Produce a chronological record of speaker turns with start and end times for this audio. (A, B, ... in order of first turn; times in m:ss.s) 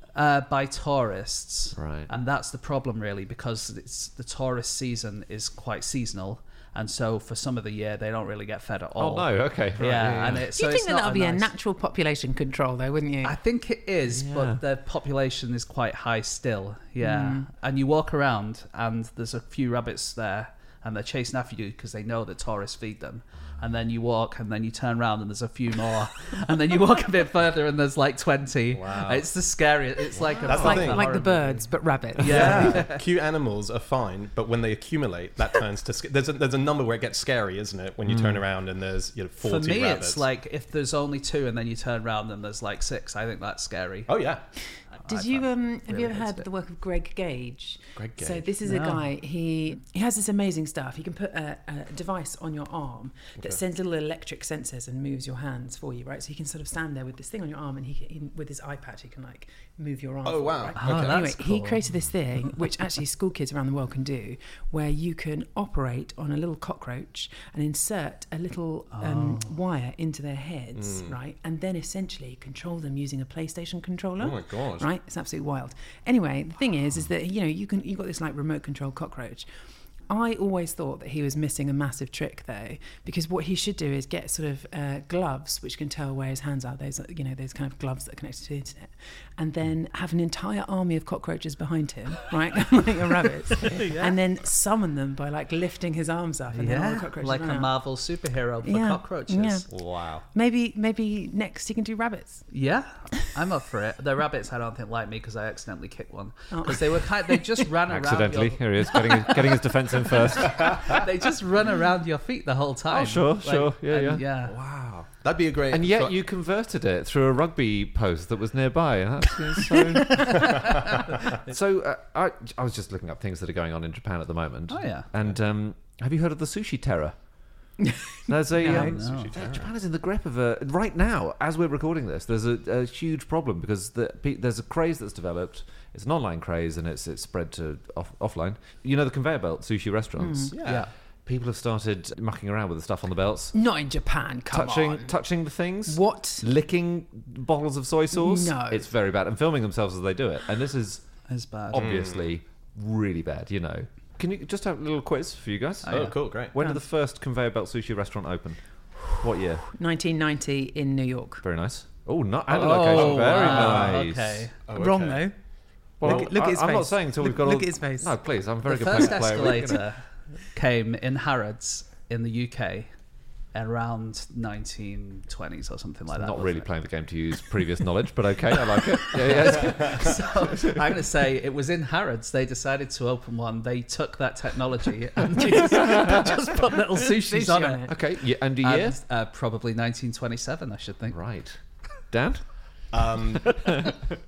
0:00.2-0:11.5 A
0:01.7-0:02.1 B
0:09.0-0:10.5 B
0:10.6-0:13.4 C
0:13.2-0:33.0 A
0:14.1-0:14.6 B
0:17.0-0:17.5 C
0:28.7-0:29.3 D
0:30.4-0:31.2 D
0:30.4-0:31.0 B
0:30.4-0:32.8 C
0:32.2-0:40.2 D
0:38.1-0:38.4 B
0:39.4-0:44.2 A
0:44.1-0:44.4 D
0:45.0-0:46.4 A
0:45.0-1:19.5 C
0:48.0-0:48.5 D
0:48.6-0:49.0 A
1:00.2-1:01.3 D
1:00.8-1:01.8 A
1:09.0-1:09.5 A
1:10.8-1:11.1 D
1:14.2-1:14.9 D
1:20.1-1:37.8 C
1:33.7-1:34.1 A
1:36.5-1:39.7 A
1:38.6-1:39.7 C
1:39.7-1:40.2 D
1:40.2-1:42.5 C
1:42.5-1:49.5 A
1:46.5-1:47.6 C
1:47.9-1:51.0 B
1:50.2-1:54.6 A
1:52.9-1:55.1 B
1:55.2-1:56.2 D
1:55.7-2:07.2 B
2:04.7-2:05.1 A
2:08.3-2:23.6 B
2:08.6-2:09.4 A
2:08.6-2:08.9 C
2:09.0-2:09.7 D
2:20.2-2:20.6 C
2:20.5-2:20.9 D
2:20.6-2:20.9 A
2:23.5-2:25.2 C
2:24.5-2:31.1 B
2:25.9-2:26.5 C
2:28.1-2:28.9 C
2:31.3-2:32.0 A
2:31.7-2:39.7 B
2:31.7-2:32.3 D
2:35.8-2:36.2 A
2:35.9-2:36.5 D
2:36.6-2:36.8 C
2:39.7-2:41.4 C
2:41.4-2:44.5 B
2:42.5-2:44.6 A
2:42.9-2:44.0 D
2:44.7-2:45.3 D
2:44.7-2:45.4 C
2:46.0-2:48.1 C
2:46.0-2:49.9 B
2:46.0-2:46.3 D
2:48.6-2:52.9 A
2:53.5-2:56.7 A
2:56.1-3:00.8 B
2:58.8-3:08.0 A
3:05.8-3:06.1 B
3:07.0-3:07.9 C
3:07.9-3:09.0 B
3:08.6-3:11.2 A
3:11.1-3:12.5 B
3:12.9-3:13.6 D
3:13.1-3:14.0 B